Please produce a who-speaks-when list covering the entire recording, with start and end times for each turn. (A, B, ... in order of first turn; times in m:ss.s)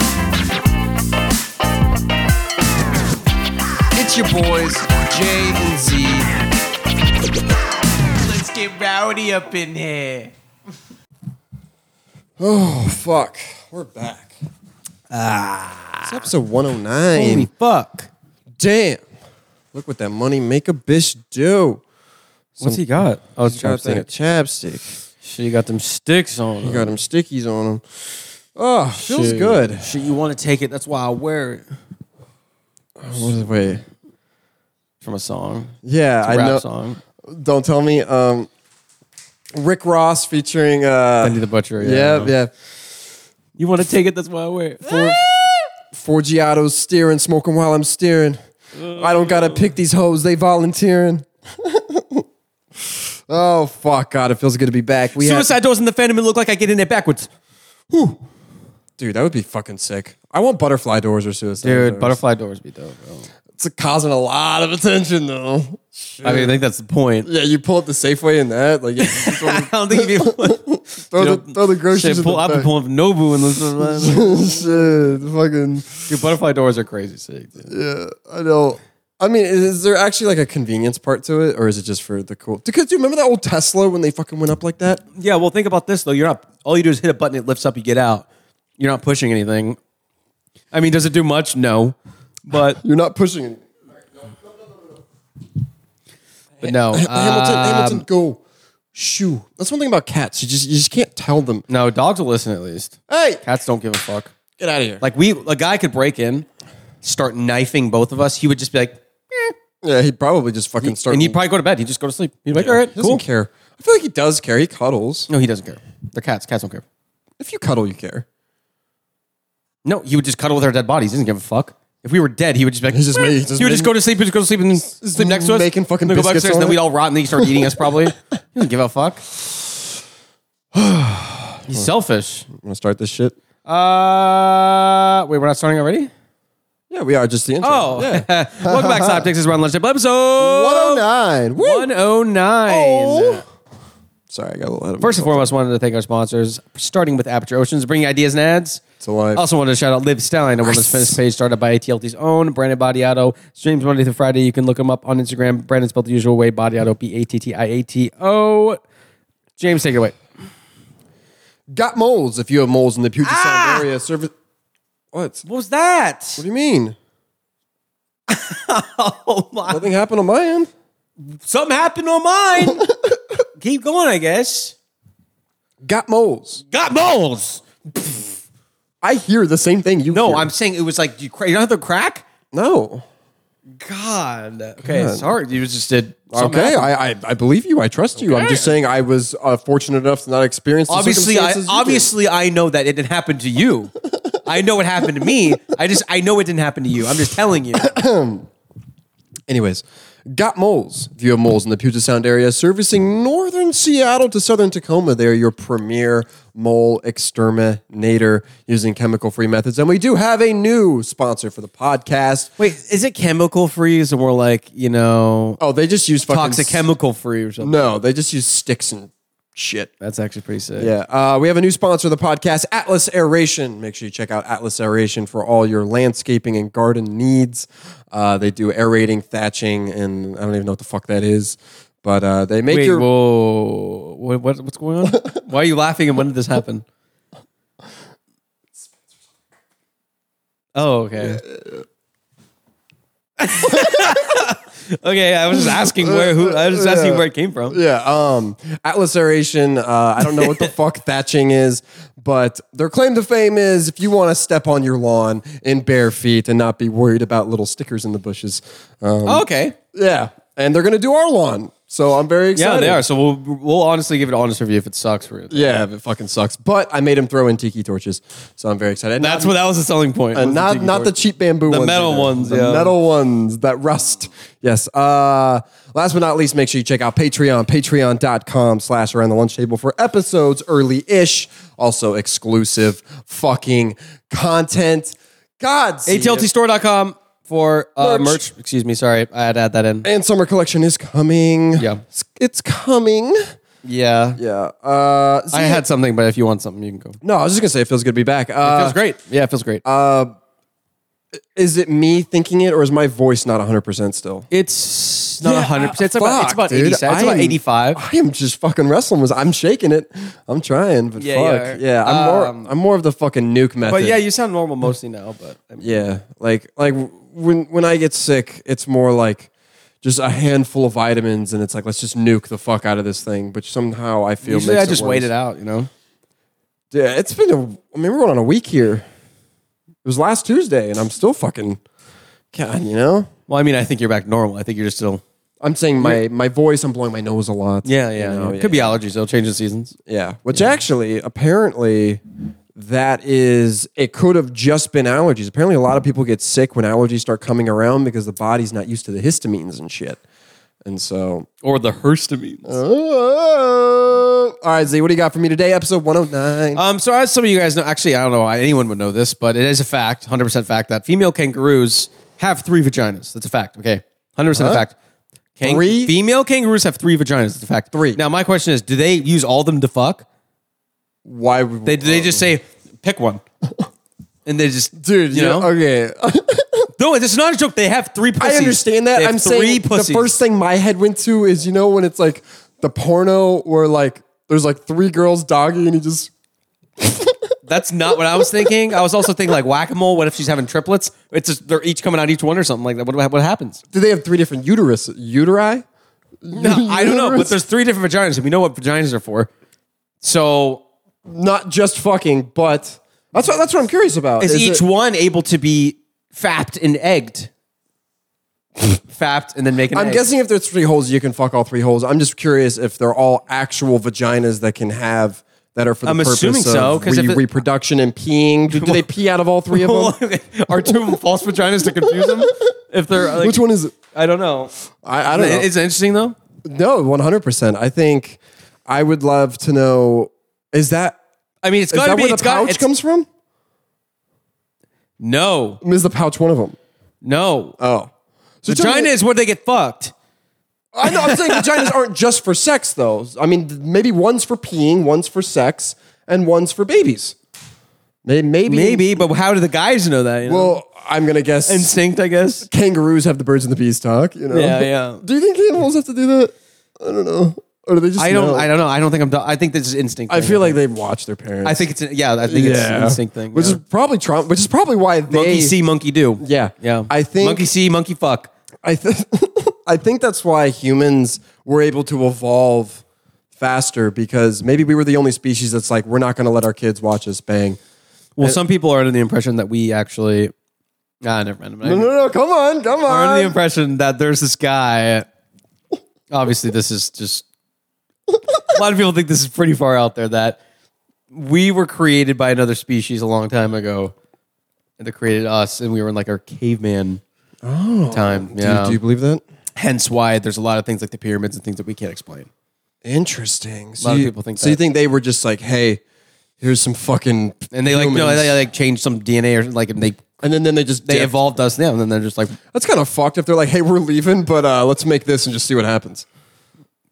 0:03.9-0:05.1 A
0:05.2-0:06.3 B
0:08.2-0:10.3 C
0:12.4-0:14.3 A
0:15.1-0:16.2 B
0:16.1-0:17.5 A
0:17.1-0:18.1 B
0:18.6-0:19.0 A
0:19.7-0:21.8 A
0:22.6-0:22.8 A
0:22.6-0:24.1 B
0:23.5-0:24.9 A
0:25.2-0:26.9 B
0:26.6-0:27.8 A
0:28.6-0:29.9 A
0:29.0-0:31.6 B
0:33.0-0:33.8 A
0:35.0-0:37.0 B
0:35.8-0:36.6 A
0:37.2-0:38.5 A
0:39.6-0:42.5 A
0:41.2-0:42.3 B
0:43.6-0:45.2 B
0:44.8-0:48.4 A
0:48.8-0:49.7 B
0:48.9-0:52.2 A
0:53.3-0:55.5 A
0:55.2-0:57.3 B
0:57.9-0:58.2 A
0:59.0-1:02.2 A
1:01.6-1:03.3 B
1:03.6-1:06.6 A
1:06.2-1:07.3 B
1:07.2-1:12.7 A
1:09.0-1:14.6 B
1:13.8-1:16.1 A
1:16.1-1:17.7 B
1:17.7-1:25.0 A
1:25.2-1:28.3 B
1:28.8-1:29.8 B
1:30.7-1:32.0 B
1:32.5-1:32.8 B
1:32.8-1:33.6 A
1:36.6-1:38.4 A
1:36.6-1:38.0 B
1:39.0-1:41.6 A
1:41.7-1:44.3 B
1:43.1-1:43.4 A
1:44.6-1:45.0 A
1:45.0-1:46.5 B
1:47.0-1:49.5 B
1:49.8-1:51.4 A
1:50.8-1:53.2 B
1:52.5-1:55.3 A
1:55.3-1:56.8 B
1:57.4-1:58.2 A
1:59.8-2:09.2 B
2:02.9-2:03.9 A
2:04.9-2:06.8 A
2:07.4-2:08.0 A
2:10.7-2:11.9 A
2:11.7-2:12.5 B
2:12.5-2:13.4 A
2:13.7-2:16.1 B
2:16.9-2:19.3 A
2:17.6-2:21.0 B
2:20.4-2:21.9 A
2:21.6-2:23.4 B
2:22.7-2:23.4 A
2:24.3-2:25.5 A
2:25.0-2:28.8 B
2:29.0-2:29.4 A
2:29.4-2:38.8 B
2:30.6-2:31.2 A
2:39.6-2:40.2 B
2:41.7-2:44.3 A
2:43.2-2:43.9 B
2:45.1-2:45.4 A
2:45.4-2:46.4 B
2:46.4-2:47.0 A
2:48.3-2:49.8 B
2:49.7-2:50.7 A
2:51.4-2:52.9 B
2:52.6-2:53.2 A
2:53.6-2:54.8 B
2:55.8-2:56.6 A
2:56.7-2:58.3 B
2:59.0-3:00.5 A
3:00.1-3:02.2 B
3:02.5-3:03.0 A
3:03.8-3:06.9 B
3:04.8-3:05.3 A
3:06.3-3:12.1 A
3:08.2-3:08.7 B
3:10.9-3:17.9 B
3:17.8-3:18.5 A
3:19.5-3:32.5 A
3:32.6-3:35.6 B
3:35.6-3:36.8 A
3:36.3-3:37.8 B
3:37.6-3:39.9 A
3:40.0-3:40.9 B
3:40.8-3:53.1 A
3:52.7-3:56.8 B
4:00.8-4:01.4 B
4:01.5-4:01.8 A
4:03.4-4:07.8 B
4:03.7-4:04.2 A
4:05.5-4:23.0 A
4:10.4-4:10.7 B
4:19.3-4:19.8 B
4:22.6-4:25.8 B
4:25.5-4:29.6 A
4:29.2-4:31.2 B
4:30.3-4:46.5 A
4:31.7-4:32.9 B
4:46.1-4:50.1 B
4:48.0-4:48.4 A
4:50.0-4:53.4 A
4:51.8-4:52.0 B
4:53.8-4:54.4 B
4:54.4-4:55.8 A
4:55.5-4:57.2 B
4:57.2-4:59.0 A
4:58.6-4:59.8 B
4:59.8-5:00.3 A
5:01.6-5:04.5 A
5:04.5-5:08.0 B
5:05.4-5:14.2 A
5:11.2-5:12.7 B
5:13.8-5:16.1 B
5:15.8-5:19.5 A
5:20.0-5:25.3 A
5:24.4-5:25.9 B
5:26.9-5:29.0 A
5:30.0-5:31.8 A
5:32.5-5:33.3 A
5:33.5-5:35.2 B
5:35.6-5:39.0 A
5:37.8-5:40.0 B
5:40.1-5:42.2 A
5:42.8-5:50.2 A
5:50.8-5:51.5 A
5:51.6-5:52.8 B
5:52.7-5:56.8 A
5:56.8-6:05.0 B
6:04.5-6:04.8 A
6:05.6-6:10.2 B
6:05.6-6:06.2 A
6:07.9-6:08.2 A
6:11.2-6:12.5 A
6:11.8-6:13.4 B
6:14.5-6:15.7 B
6:15.0-6:16.9 A
6:17.0-6:20.4 B
6:18.4-6:26.3 A
6:27.0-6:27.5 A
6:27.7-6:33.8 B
6:33.9-6:35.8 A
6:36.4-6:37.6 A
6:36.5-6:39.5 B
6:40.2-6:40.8 B
6:41.3-6:44.8 A
6:44.4-6:47.5 B
6:49.1-6:50.2 B
6:49.9-7:00.2 A
6:56.0-6:57.4 B
6:58.7-6:59.1 B
6:59.7-7:04.7 B
7:01.8-7:02.6 A
7:03.2-7:03.9 A
7:05.0-7:05.7 A
7:05.3-7:06.4 B
7:06.6-7:11.2 A
7:11.6-7:12.9 B
7:11.9-7:13.3 A
7:15.2-7:15.8 B
7:15.8-7:16.8 A
7:17.2-7:17.8 B
7:17.8-7:18.1 A
7:18.6-7:19.1 A
7:18.7-7:20.1 B
7:20.9-7:27.4 A
7:21.0-7:21.9 B
7:28.2-7:29.3 A
7:28.7-7:30.8 B
7:30.5-7:32.0 A
7:31.7-7:32.7 B
7:32.6-7:38.7 A
7:34.5-7:35.2 B
7:38.2-7:40.8 B
7:40.3-7:41.9 A
7:41.6-7:43.8 B
7:42.5-7:45.8 A
7:45.3-7:48.5 B
7:46.4-7:47.7 A
7:48.8-7:53.0 A
7:53.6-7:57.8 A
7:58.4-8:00.5 B
8:01.2-8:02.1 B
8:01.8-8:03.5 A
8:03.1-8:05.3 B
8:06.3-8:07.4 B
8:08.7-8:10.6 B
8:11.3-8:14.1 B
8:15.0-8:17.2 B
8:17.6-8:19.4 A
8:18.1-8:19.0 B
8:19.8-8:22.5 B
8:23.0-8:26.0 A
8:24.0-8:24.8 B
8:26.6-8:28.6 A
8:27.7-8:30.3 B
8:30.4-8:31.4 A
8:31.0-8:32.6 B
8:32.7-8:36.3 A